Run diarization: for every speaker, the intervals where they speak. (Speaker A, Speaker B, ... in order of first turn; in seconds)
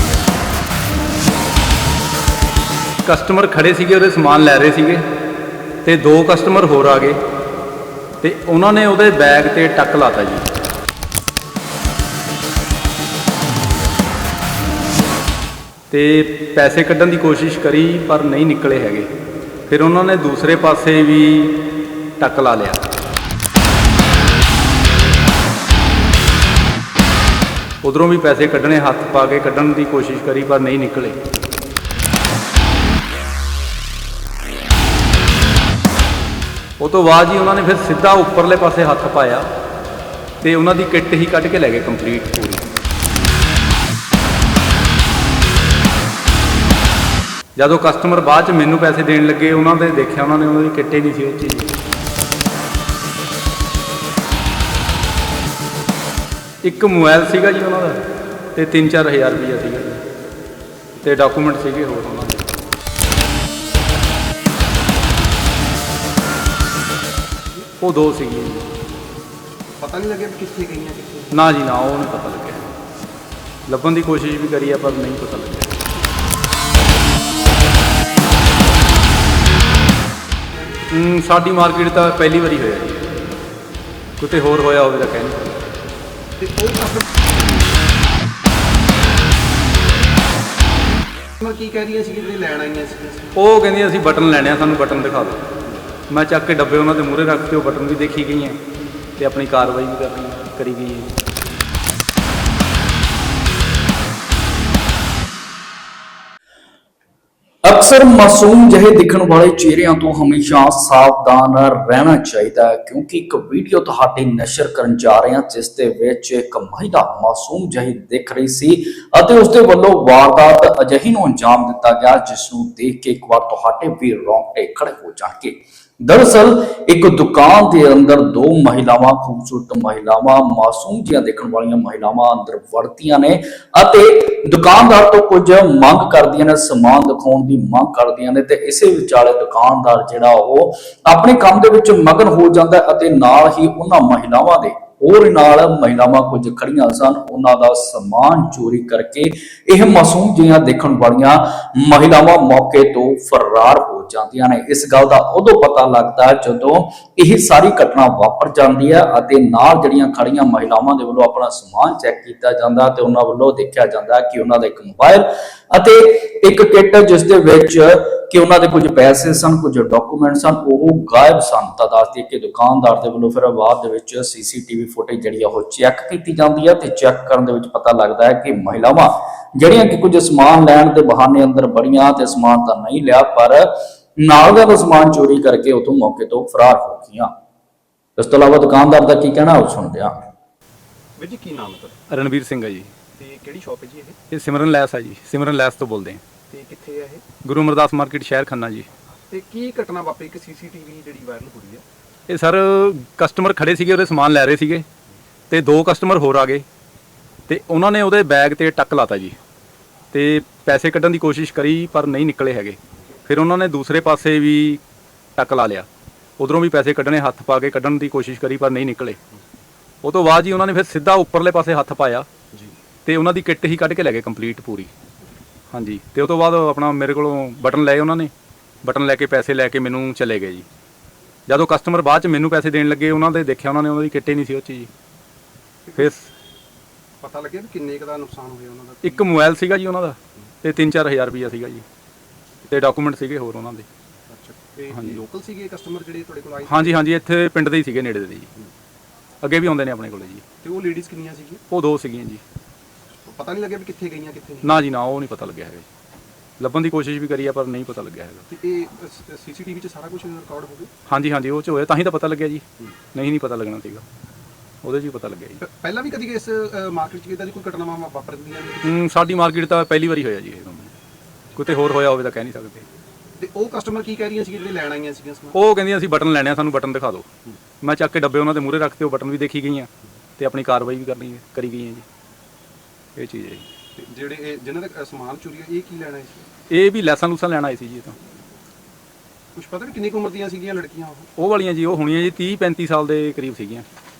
Speaker A: 3.0-5.1, 5.8-7.2, 8.2-10.5, 15.9-19.1, 19.7-21.6, 22.2-22.8, 27.8-31.2, 36.8-39.5, 40.4-42.6, 47.5-51.7, 56.6-58.0, 58.5-60.0, 61.0-62.5, 67.8-68.7, 71.3-72.7, 73.7-75.8, 80.9-83.0, 84.2-85.5, 93.3-95.4, 96.1-98.6, 99.2-101.1, 192.1-192.9, 194.3-196.2, 197.4-198.9, 202.3-204.8, 205.5-206.6, 207.5-209.4, 210.1-214.8, 215.3-215.9, 216.4-219.2, 220.0-222.2, 223.1-224.9, 225.7-228.3, 228.8-230.6, 231.5-234.9, 235.9-236.3, 239.0-241.8, 242.7-243.9, 246.7-248.5, 249.4-250.4, 251.7-252.4, 254.6-255.9, 256.6-258.4, 261.1-264.0, 264.8-265.6, 268.8-270.9, 271.6-272.8, 275.5-277.3, 277.8-282.0, 283.1-283.6, 286.7-288.1, 291.4-293.8
Speaker B: 69.8-71.5, 86.4-87.2, 91.4-93.4, 191.2-192.0, 193.2-194.2, 196.5-197.2, 199.3-201.8, 235.8-236.1, 237.2-239.2, 244.3-247.0, 250.6-251.6, 253.2-254.8, 258.5-260.9, 265.6-269.0, 273.4-275.6, 284.0-286.5, 289.6-291.3
Speaker C: 107.6-187.3, 188.2-190.2